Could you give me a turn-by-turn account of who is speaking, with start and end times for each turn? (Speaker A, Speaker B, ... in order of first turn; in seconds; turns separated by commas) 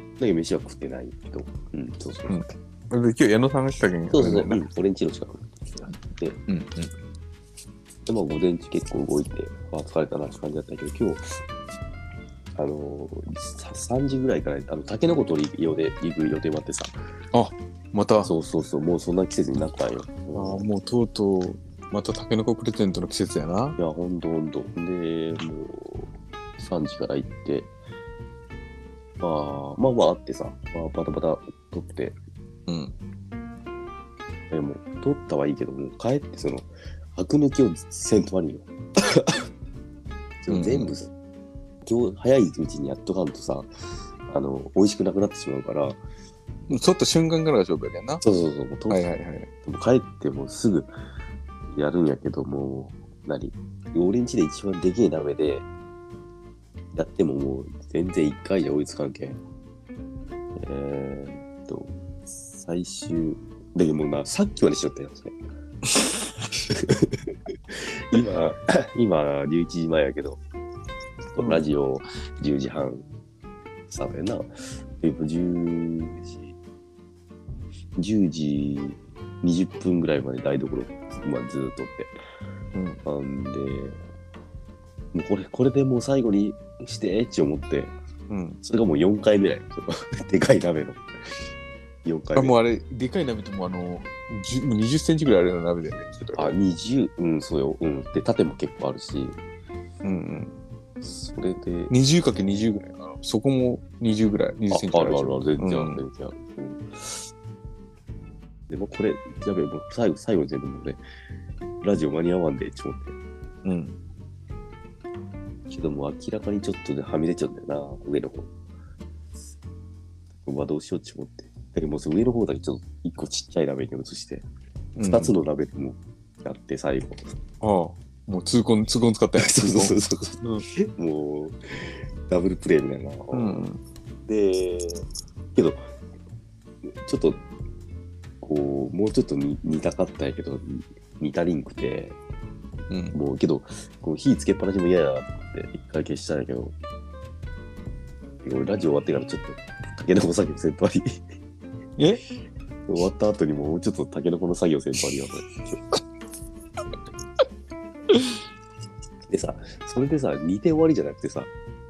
Speaker A: 0.2-2.5, Speaker B: 2.3-4.6, Speaker A: 4.1-6.4, Speaker B: 6.5-6.9, Speaker A: 8.1-11.3, Speaker A: 12.5-16.9, Speaker B: 17.3-18.3, Speaker A: 18.2-20.7, Speaker B: 20.3-23.8, Speaker A: 23.8-27.7, Speaker A: 29.2-32.2, Speaker B: 32.7-32.9, Speaker A: 34.5-39.2, Speaker A: 40.4-41.1, Speaker B: 40.5-40.9, Speaker A: 41.8-43.7, Speaker A: 44.2-46.0, Speaker B: 46.7-48.2, Speaker A: 48.2-49.1, Speaker B: 48.9-49.5, Speaker A: 49.6-50.9, Speaker A: 51.7-55.6, Speaker A: 56.9-59.4, Speaker A: 60.6-62.0, Speaker A: 62.5-65.4, Speaker A: 66.7-70.4, Speaker A: 71.3-73.0, Speaker B: 71.4-71.6, Speaker A: 73.9-76.5, Speaker A: 78.0-82.1, Speaker B: 82.7-83.0, Speaker A: 83.0-84.0, Speaker A: 85.1-87.9, Speaker B: 88.3-88.6, Speaker A: 88.6-91.1, Speaker A: 92.0-92.5, Speaker B: 92.3-96.6, Speaker A: 96.3-99.4, Speaker B: 100.0-100.5, Speaker A: 101.0-101.9, Speaker B: 101.9-106.0, Speaker A: 104.7-106.9, Speaker A: 108.7-111.0, Speaker A: 111.8-113.2, Speaker B: 113.6-114.0, Speaker A: 115.7-118.5, Speaker A: 120.4-124.5, Speaker B: 125.0-125.4, Speaker A: 125.0-127.3, Speaker B: 127.6-130.7, Speaker A: 129.4-133.7, Speaker B: 133.3-133.8, Speaker A: 134.2-135.8, Speaker A: 136.8-137.4, Speaker A: 138.4-142.2, Speaker B: 142.9-143.2, Speaker A: 143.1-146.7, Speaker A: 148.4-151.2, Speaker B: 152.0-152.2, Speaker A: 152.9-156.0, Speaker A: 159.3-161.5